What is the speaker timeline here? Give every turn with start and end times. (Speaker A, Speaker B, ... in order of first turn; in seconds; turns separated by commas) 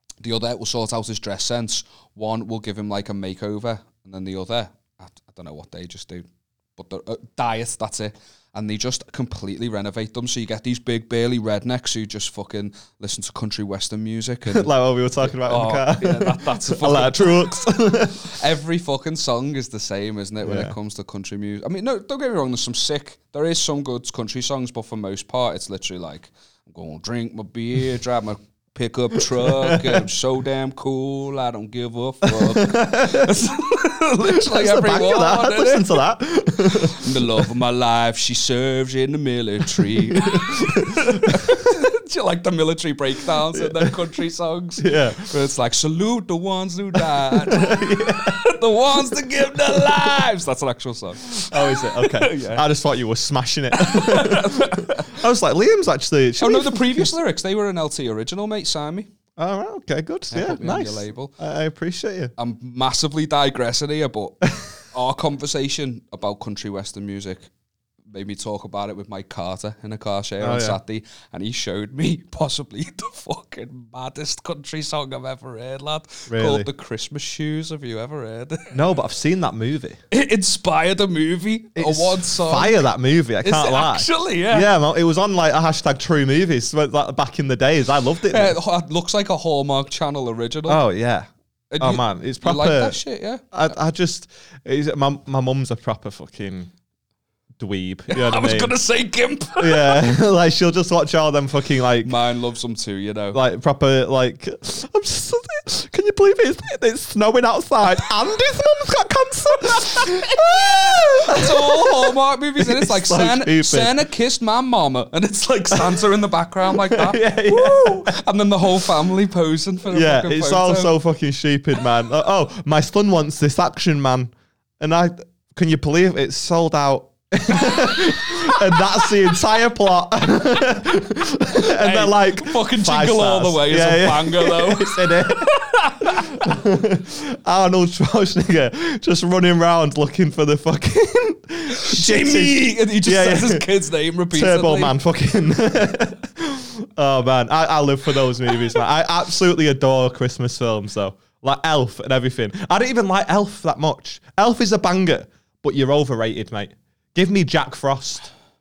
Speaker A: 0.2-36.0, Speaker B: 14.5-18.3, Speaker B: 20.4-20.7, Speaker B: 29.3-30.0, Speaker B: 32.2-33.4, Speaker B: 34.3-37.5, Speaker A: 36.7-52.6, Speaker B: 40.2-41.7, Speaker B: 43.5-43.9, Speaker B: 44.8-45.3, Speaker B: 47.0-48.4, Speaker B: 51.3-57.1, Speaker A: 53.8-55.2, Speaker A: 56.4-59.1, Speaker B: 59.4-62.3, Speaker A: 60.3-61.4, Speaker A: 62.4-67.5, Speaker A: 68.1-78.8, Speaker B: 70.4-70.8, Speaker B: 76.3-76.7, Speaker B: 78.7-80.0, Speaker A: 80.1-82.8, Speaker B: 81.8-88.5, Speaker A: 83.4-84.7, Speaker A: 88.2-90.8, Speaker B: 90.7-91.3, Speaker A: 91.7-93.5, Speaker B: 91.8-93.0, Speaker B: 93.5-96.7, Speaker B: 97.6-98.8, Speaker A: 98.1-100.2, Speaker B: 99.6-102.1, Speaker A: 102.0-103.4, Speaker B: 103.3-113.9, Speaker A: 109.8-120.9, Speaker B: 115.7-116.0, Speaker B: 116.7-118.1, Speaker B: 119.9-135.5, Speaker A: 131.5-136.3, Speaker B: 136.3-143.7, Speaker A: 141.7-144.9, Speaker B: 144.3-158.3